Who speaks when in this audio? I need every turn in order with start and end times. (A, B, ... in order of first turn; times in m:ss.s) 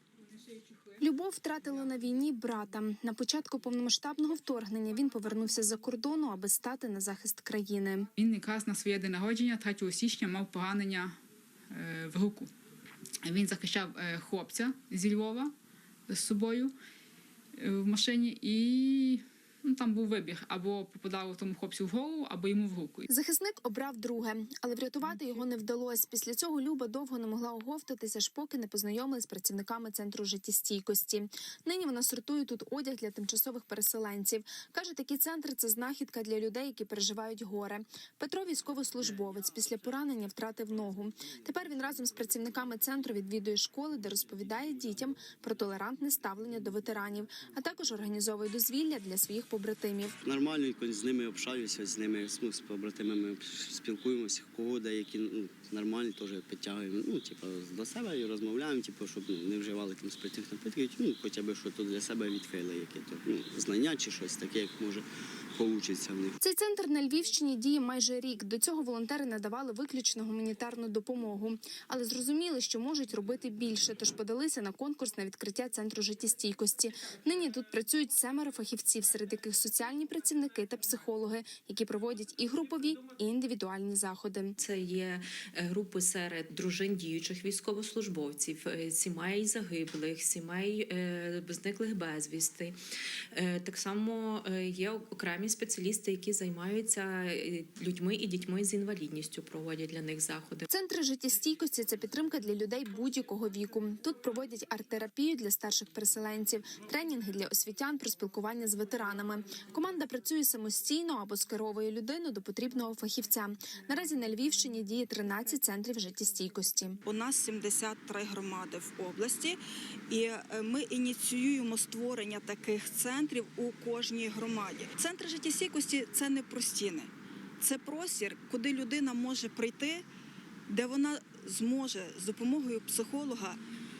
0:01.0-0:08.1 A
0:08.2-0:11.2 B
0:11.7-0:12.5 B
0:13.2-0:15.5 B
0:16.1-0:16.7 B
0:17.6-0:23.0 B
0:23.1-0:50.2 A
0:50.2-1:06.3 C
1:06.4-1:24.6 A
1:24.6-1:32.8 D
1:33.3-1:40.6 D
1:40.7-1:57.0 A
1:57.0-1:59.6 E
2:00.1-2:07.1 E
2:07.6-2:10.0 E
2:10.7-2:13.6 E